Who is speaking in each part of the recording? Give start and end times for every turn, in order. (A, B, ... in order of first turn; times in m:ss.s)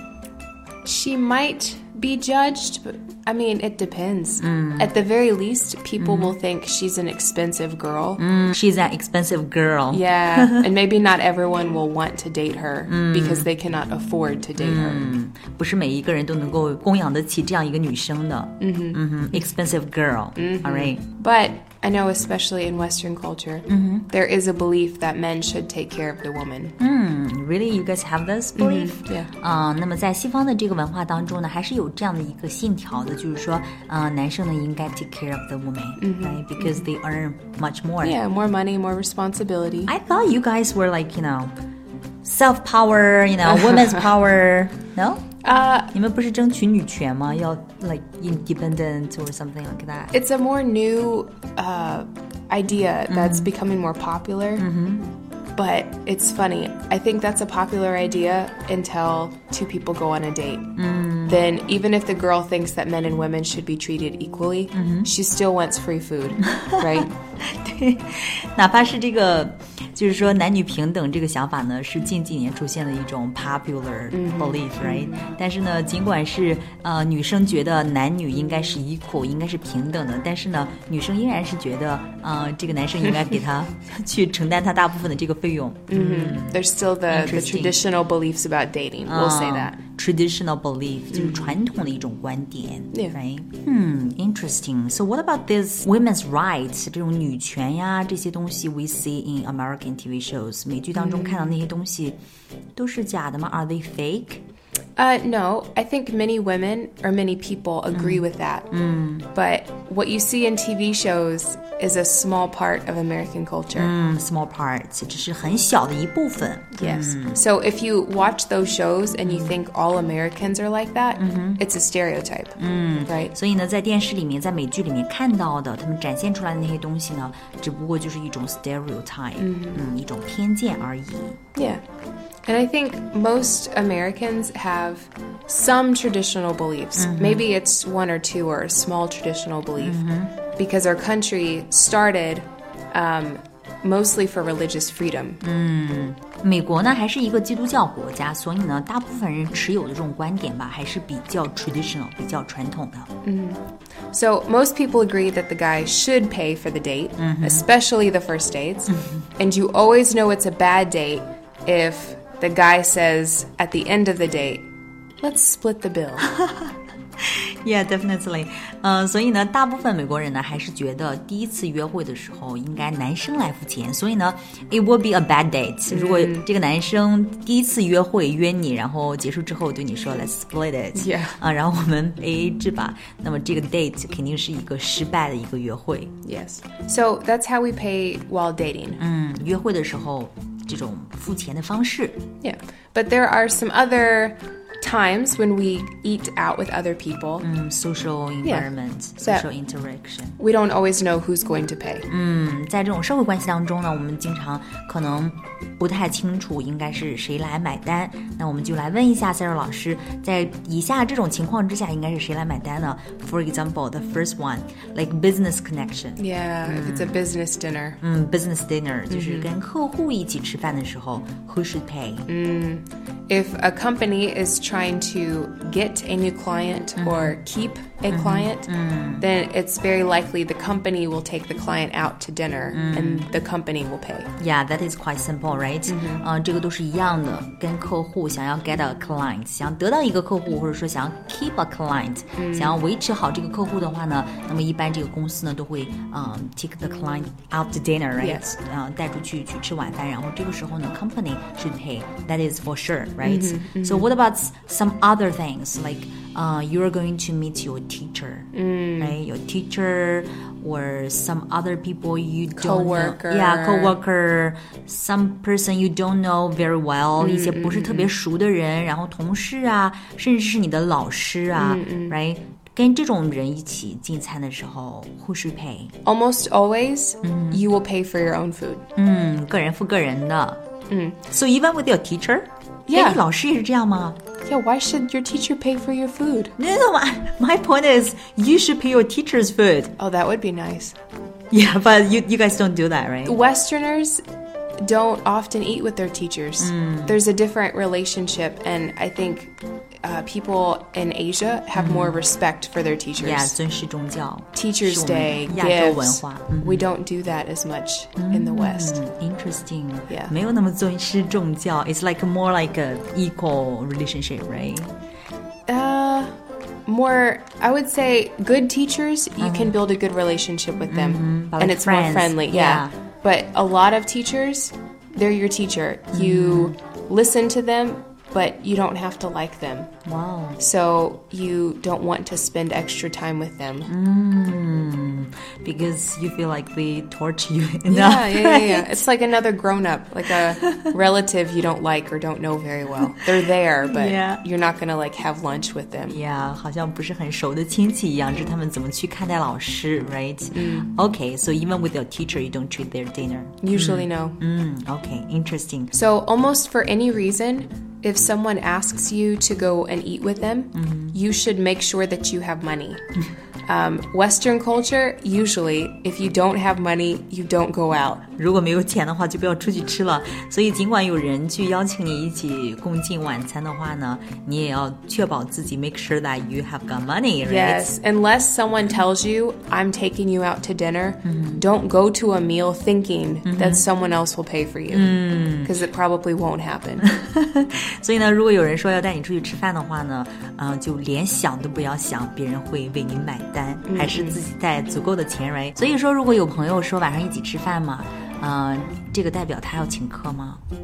0:00.8-0:08.2 A
0:04.4-0:05.0 B
0:06.0-0:06.4 B
0:08.2-0:10.7 B
0:09.9-0:15.2 A
0:12.9-0:13.5 B
0:14.6-0:21.0 B
0:18.6-0:19.5 A
0:20.4-0:26.8 A
0:23.7-0:24.1 B
0:26.8-0:38.2 B
0:28.6-0:29.3 A
0:36.0-0:36.9 A
0:38.0-0:39.9 A
0:39.9-0:41.5 B
0:42.2-0:45.3 B
0:45.4-0:45.9 A
0:45.9-0:50.1 B
0:50.1-0:54.6 A
0:53.1-0:53.5 B
0:54.6-0:55.1 B
0:55.6-1:00.7 A
1:00.8-1:01.4 B
1:01.3-1:07.1 A
1:04.7-1:05.1 B
1:06.6-1:27.8 B
1:14.1-1:15.3 A
1:25.9-1:29.8 A
1:29.1-1:42.2 B
1:31.1-1:31.6 A
1:32.9-1:33.2 A
1:41.0-1:41.6 A
1:42.8-1:44.4 B
1:45.0-1:48.7 A
1:47.9-1:49.3 B
1:49.3-1:53.9 A
1:53.8-1:57.4 B
1:56.7-2:03.3 A
1:59.2-1:59.6 B
2:01.2-2:01.6 B
2:02.6-2:11.4 B
2:09.4-2:09.9 A
2:11.6-2:11.8 A
2:12.5-2:20.0 A
2:17.0-2:17.5 B
2:19.8-2:20.3 B
2:20.6-2:25.4 A
2:25.4-2:33.1 B
2:33.2-2:44.7 A
2:37.2-2:37.6 B
2:38.9-2:39.2 B
2:45.2-2:46.3 A
2:46.3-3:06.1 B
2:55.9-2:56.5 A
3:00.9-3:01.4 A
3:06.2-3:09.0 A
3:09.0-3:12.2 B
3:12.4-3:17.5 A
3:17.4-3:20.4 B
3:18.4-3:18.7 A
3:19.2-3:19.5 A
3:20.4-3:22.1 A
3:22.1-3:37.2 B
3:36.2-3:38.0 A
3:38.0-3:42.3 B
3:39.1-3:39.5 A
3:42.3-3:54.3 A
3:47.0-3:47.4 B
3:48.1-3:49.3 B
3:52.7-3:53.3 B
3:54.4-4:35.9 B
3:55.8-3:56.2 A
4:02.4-4:02.8 A
4:08.2-4:08.4 A
4:13.2-4:14.1 A
4:18.5-4:19.2 A
4:22.6-4:24.0 A
4:27.2-4:28.1 A
4:31.6-4:32.2 A
4:36.0-4:38.8 A
4:37.2-4:37.6 B
4:39.0-4:40.6 B
4:40.9-4:41.3 A
4:41.3-4:44.2 B
4:42.9-4:43.2 A
4:44.5-4:46.6 A
4:46.6-4:49.9 B
4:50.0-4:51.0 A
4:51.5-4:53.4 B
4:53.3-4:54.2 A
4:54.8-5:03.6 A
4:56.6-4:57.2 B
5:01.8-5:02.2 B
5:03.2-5:06.9 B
5:04.5-5:09.0 A
5:08.2-5:14.9 B
5:10.1-5:10.3 A
5:15.7-5:16.3 A
5:16.9-5:29.9 A
5:19.4-5:19.8 B
5:20.9-5:22.9 B
5:26.1-5:26.7 B
5:30.0-5:30.6 B
5:30.6-5:33.9 A
5:33.9-5:39.0 B
5:37.9-5:46.2 A
5:40.6-5:40.9 B
5:43.8-5:44.4 B
5:46.1-5:55.9 B
5:50.5-5:50.9 A
5:53.6-5:54.4 A
5:55.9-6:03.0 A
6:00.7-6:01.2 B
6:03.7-6:08.2 A
6:08.4-6:17.9 B
6:17.4-6:27.1 A
6:21.2-6:21.6 B
6:23.4-6:23.8 B
6:24.9-6:25.8 B
6:27.0-6:40.6 B
6:33.9-6:34.4 A